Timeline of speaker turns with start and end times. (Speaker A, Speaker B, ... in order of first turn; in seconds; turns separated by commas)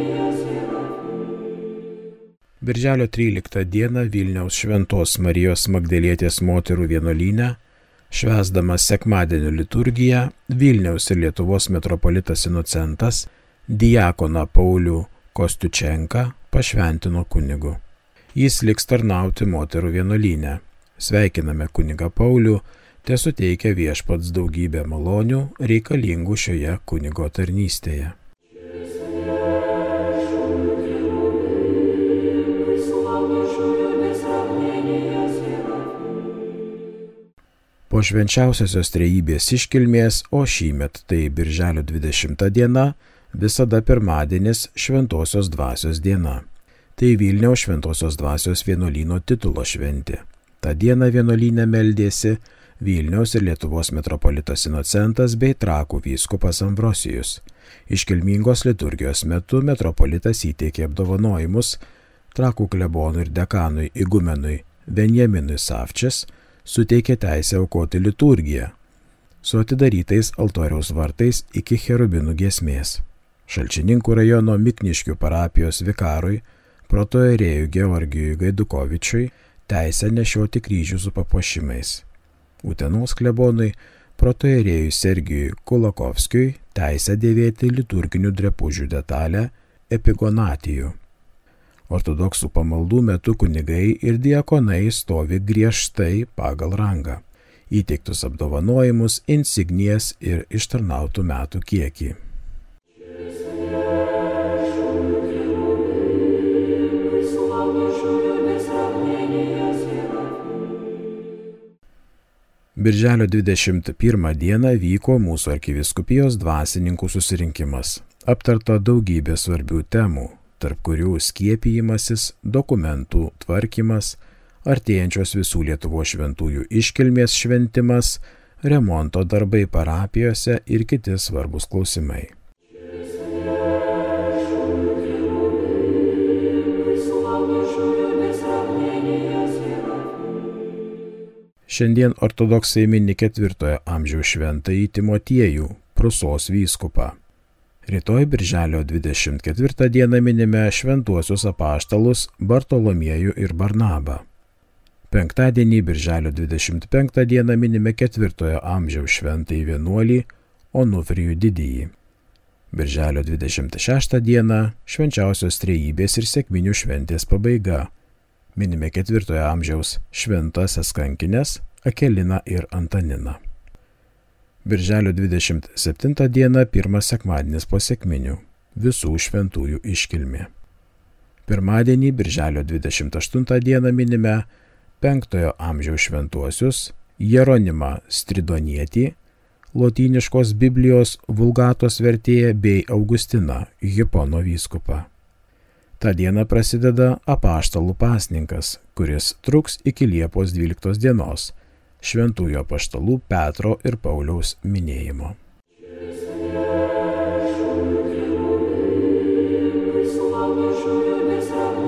Speaker A: 2.6-7.6, Speaker A: 8.1-17.8, Speaker A: 18.3-28.1, Speaker A: 37.9-46.4, Speaker A: 47.0-61.8, Speaker A: 62.3-68.7, Speaker A: 69.4-82.0, Speaker A: 82.6-91.0, Speaker A: 91.9-102.2, Speaker A: 112.8-132.3, Speaker A: 141.7-147.2, Speaker A: 147.8-154.2, Speaker A: 155.1-161.9, Speaker A: 162.7-167.9, Speaker A: 168.5-173.4, Speaker A: 174.6-180.5, Speaker A: 181.4-184.4, Speaker A: 185.0-189.2, Speaker A: 189.7-195.1, Speaker A: 196.0-205.3